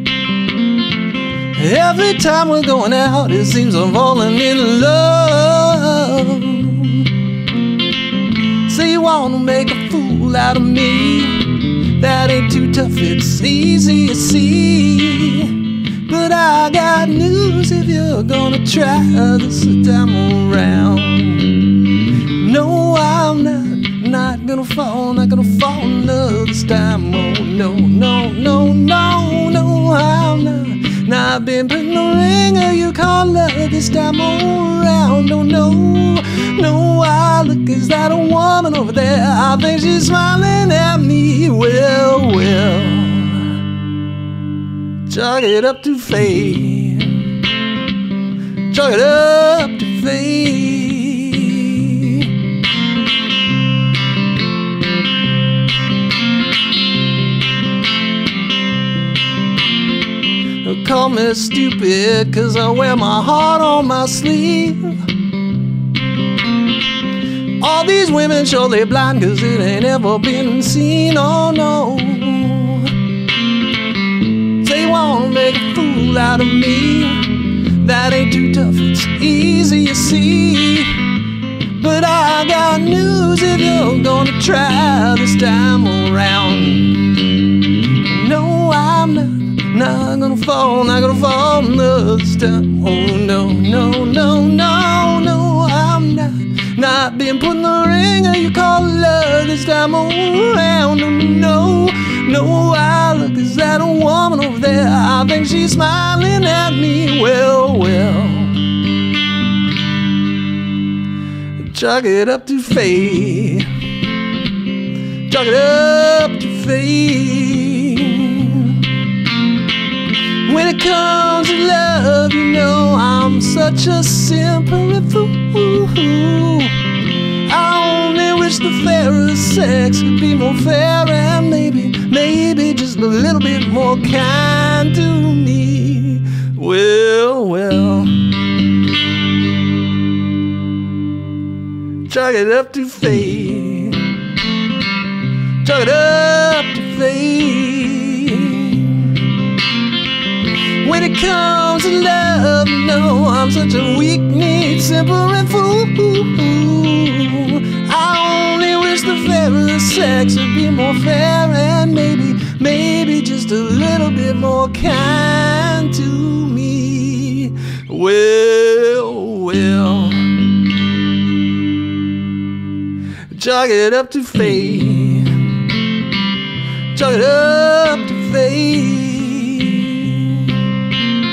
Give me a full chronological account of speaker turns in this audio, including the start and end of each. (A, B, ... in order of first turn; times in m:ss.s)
0:01.5-0:07.1 A
0:08.6-0:21.7 A
0:22.3-0:43.6 A
0:45.1-0:47.2 A
0:48.7-0:52.4 A
1:00.6-1:05.1 A
1:07.6-1:13.0 A
1:14.6-1:21.1 A
1:21.7-1:27.2 A
1:28.0-1:48.7 A
1:51.6-1:53.7 A
1:55.3-1:58.9 A
2:00.4-2:06.8 A
2:07.4-2:18.4 A
2:22.0-2:24.2 A
2:25.6-2:29.3 A
2:30.8-2:50.5 A
2:53.3-2:55.6 A
2:56.9-3:00.6 A